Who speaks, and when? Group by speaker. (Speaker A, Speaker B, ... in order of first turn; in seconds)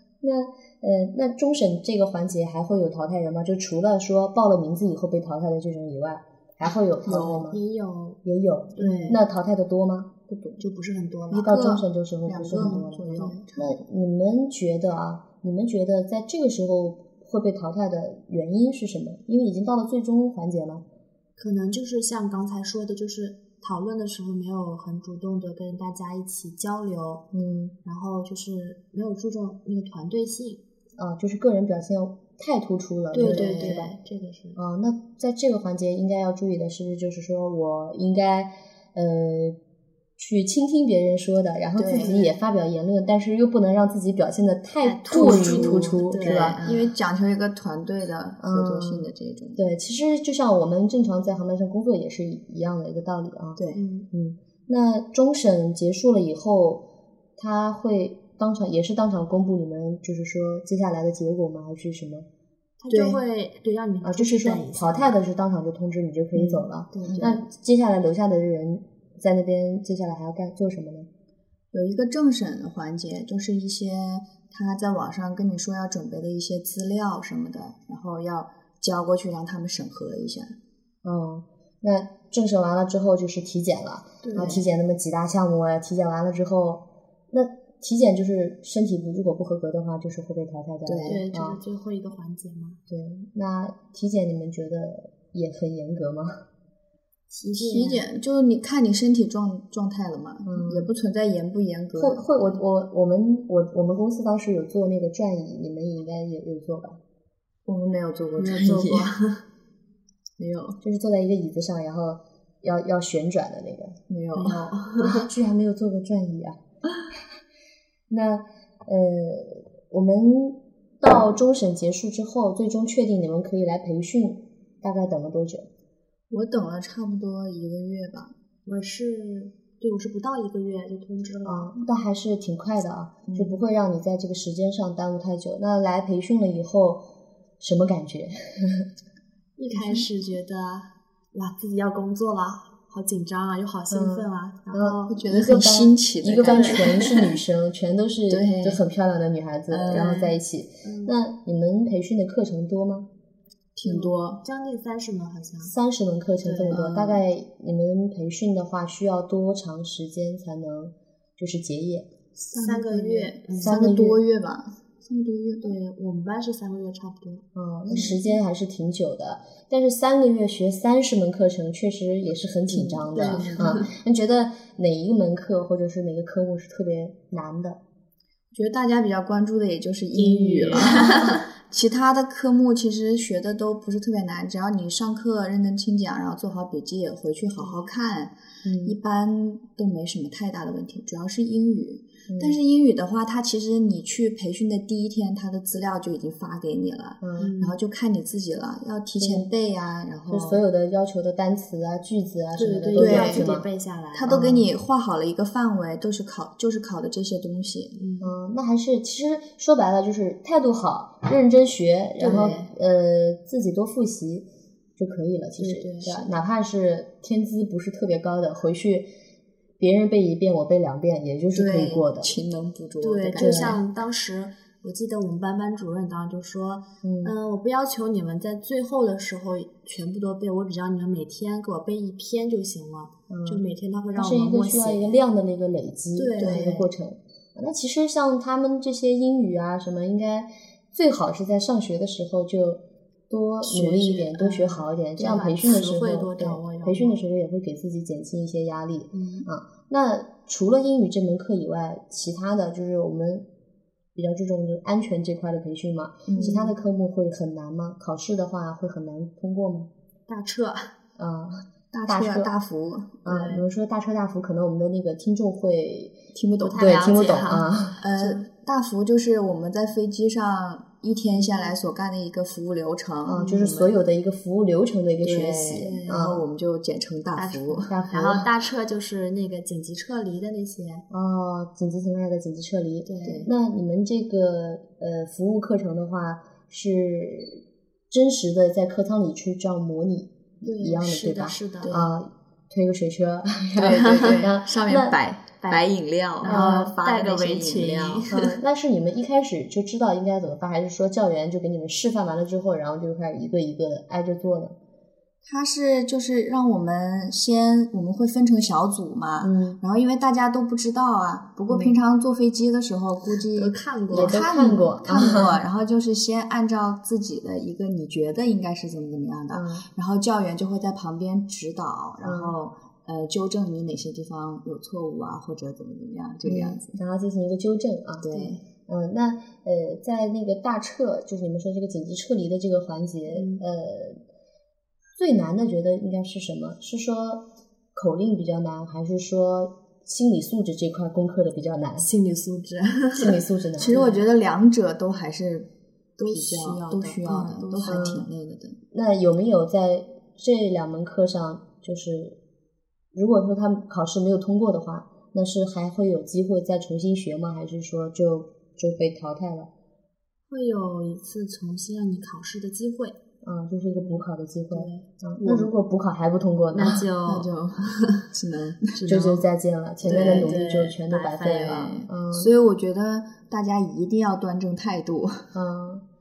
Speaker A: 0.2-7.6, 8.2-10.6, 11.3-20.8, 27.3-27.8, 31.0-34.0, 34.6-39.6, 40.2-46.6, 48.4-53.6, 54.1-56.9, 57.4-62.3, 64.0-71.1, 81.0-91.6, 92.9-96.5, 100.5-100.9, 102.0-107.0, 110.8-114.0, 115.0-116.6, 118.1-125.7, 131.4-137.1, 137.6-138.9, 143.9-153.1, 155.6-162.1, 163.6-164.2, 167.6-177.8, 188.7-189.0, 192.3-192.6, 197.2-197.5, 199.2-199.5, 200.3-203.7, 204.3-204.7, 208.2-219.1, 219.8-222.3, 223.4-223.8, 227.0-227.3, 233.3-233.6, 234.2-253.5, 254.2-259.9, 261.2-262.5, 263.2-266.2, 266.8-268.1, 273.3-276.4, 277.9-278.5, 281.1-295.1, 296.4-296.9, 298.3-304.8, 309.4-309.8, 311.7-312.0, 314.1-315.6, 319.5-319.9, 322.2-322.6, 326.4-334.2, 335.2-342.1, 343.1-344.0, 347.8-348.3, 348.9-352.4, 353.1-359.7, 363.4-367.1, 369.1-372.5, 375.5-376.1
Speaker B: 7.0-7.5, 11.3-13.8, 33.2-33.7, 41.8-42.4, 45.1-49.6, 62.9-63.2, 67.0-67.4, 71.7-80.6, 90.9-91.2, 97.5-102.3, 107.7-109.1, 110.4-110.8, 114.1-114.7, 126.3-128.3, 133.3-133.6, 145.1-147.2, 148.3-148.8, 149.7-150.4, 153.8-154.4, 156.7-157.2, 162.5-165.8, 173.1-173.8, 178.5-200.6, 202.9-203.5, 204.1-207.9, 221.5-223.8, 236.4-236.8, 256.3-256.8, 261.9-263.2, 266.3-266.9, 268.0-273.5, 275.2-278.0, 293.8-298.2, 305.4-327.0, 328.2-328.6, 343.8-348.8, 367.2-369.1, 370.0-370.7, 371.6-375.5
Speaker C: 7.5-8.2, 8.8-9.2, 10.6-11.6, 12.6-13.4, 21.4-27.2, 27.8-30.6, 33.1-34.6, 44.8-46.9, 53.8-54.1, 62.8-65.2, 66.4-67.3, 84.2-84.6, 91.1-92.8, 97.3-98.0, 108.4-109.4, 114.4-115.3, 128.7-131.8, 139.6-145.2, 146.4-147.1, 150.8-151.2, 153.8-155.7, 156.4-156.9, 162.5-164.1, 165.6-168.1, 172.7-173.9, 180.2-181.4, 187.6-187.9, 197.4-197.8, 202.6-204.3, 207.9-208.3, 212.2-212.7, 215.6-216.3, 223.0-235.2, 236.2-236.9, 243.6-247.2, 249.1-249.5, 256.3-256.6, 260.3-260.9, 263.3-263.6, 266.6-267.7, 271.4-271.7, 273.4-273.9, 277.4-281.1, 283.1-283.5, 290.6-292.0, 293.9-294.4, 295.6-295.9, 296.4-298.6, 313.3-314.4, 315.1-315.4, 333.3-333.6, 342.0-344.2, 346.2-348.2, 360.5-363.2, 364.7-365.7, 366.7-368.3, 368.9-369.4, 370.1-372.0